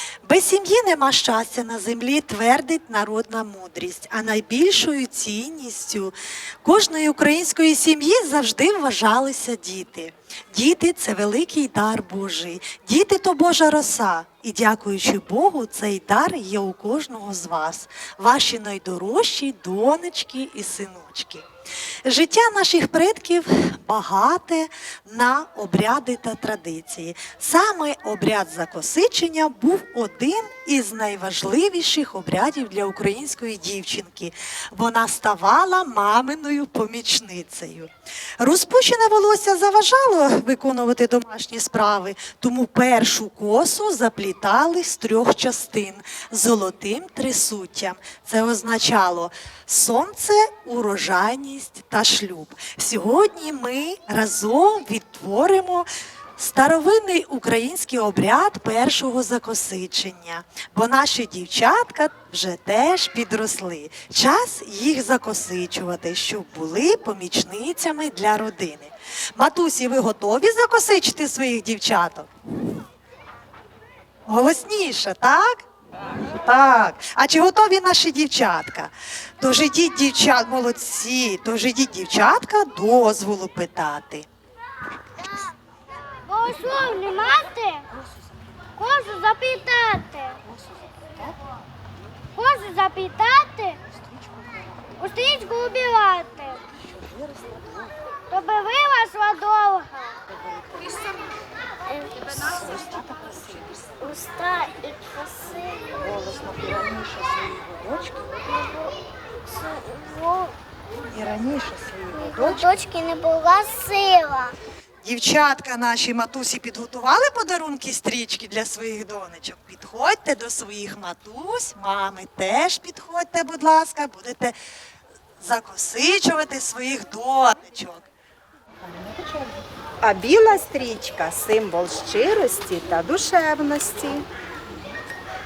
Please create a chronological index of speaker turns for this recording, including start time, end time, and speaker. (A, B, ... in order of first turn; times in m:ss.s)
0:00.2-0:21.4 A
0:22.0-1:12.3 A
1:14.3-1:15.6 A
1:16.3-1:24.3 A
1:25.2-1:25.5 B
1:26.3-1:27.8 B
1:28.8-1:30.4 B
1:32.4-1:33.8 B
1:35.0-1:36.6 B
1:36.9-1:37.8 A
1:38.3-1:40.2 B
1:40.4-1:40.9 A
1:41.9-1:42.8 B
1:42.4-1:43.9 A
1:44.0-1:46.1 B
1:46.0-1:48.3 A
1:48.4-1:48.9 B
1:49.5-1:50.5 B
1:51.1-1:52.8 A
1:52.2-1:54.5 B
1:55.0-2:04.6 A
2:05.4-2:08.1 A
2:10.0-2:14.2 C